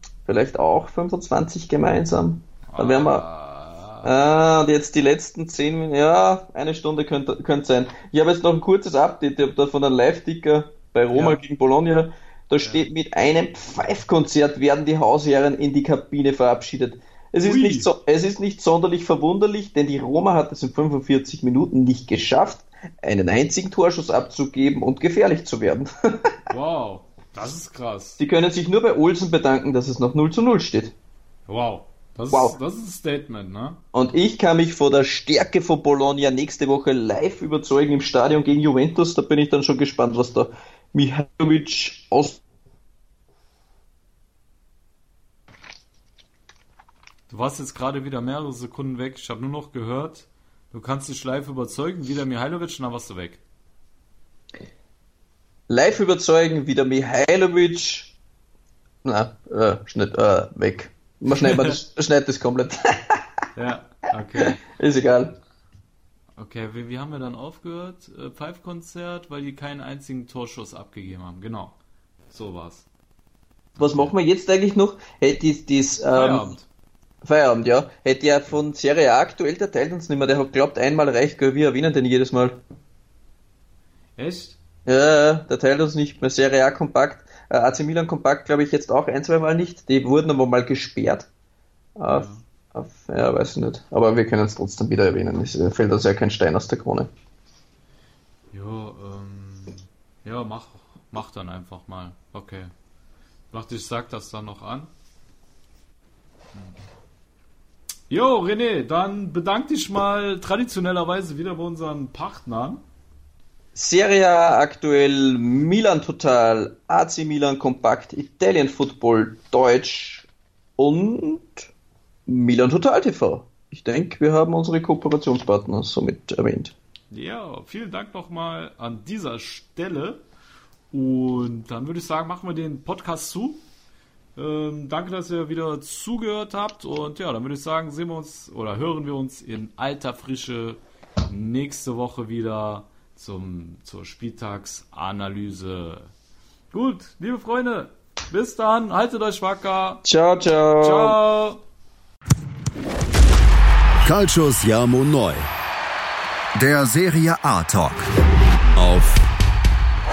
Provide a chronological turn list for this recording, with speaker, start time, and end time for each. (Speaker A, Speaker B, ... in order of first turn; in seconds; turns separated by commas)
Speaker A: 0.3-3.2, Speaker B: 2.7-4.1, Speaker A: 4.0-26.3, Speaker B: 11.1-11.4, Speaker B: 17.4-17.9, Speaker B: 26.5-28.2, Speaker A: 28.2-30.9, Speaker B: 31.5-33.8, Speaker A: 32.3-32.6, Speaker A: 33.9-42.4, Speaker B: 47.3-53.4, Speaker A: 55.7-58.1, Speaker A: 59.0-63.2, Speaker B: 61.4-61.8, Speaker B: 63.5-64.6, Speaker A: 64.6-65.4, Speaker B: 66.4-71.7, Speaker B: 72.3-72.8, Speaker B: 73.8-74.2, Speaker A: 73.8-76.5, Speaker B: 76.1-76.7, Speaker A: 77.2-82.6, Speaker B: 84.2-84.6, Speaker A: 84.8-91.3, Speaker A: 92.0-97.1, Speaker B: 92.1-92.4, Speaker B: 98.5-102.7, Speaker B: 103.5-104.9, Speaker B: 108.1-112.8, Speaker A: 113.7-120.2, Speaker A: 120.8-121.7, Speaker A: 122.3-126.7, Speaker B: 127.1-130.2, Speaker B: 130.9-133.6, Speaker B: 134.3-146.1, Speaker B: 146.7-150.0, Speaker A: 150.0-151.2, Speaker B: 150.8-151.6, Speaker C: 154.0-155.5, Speaker C: 156.6-158.1, Speaker C: 158.7-159.2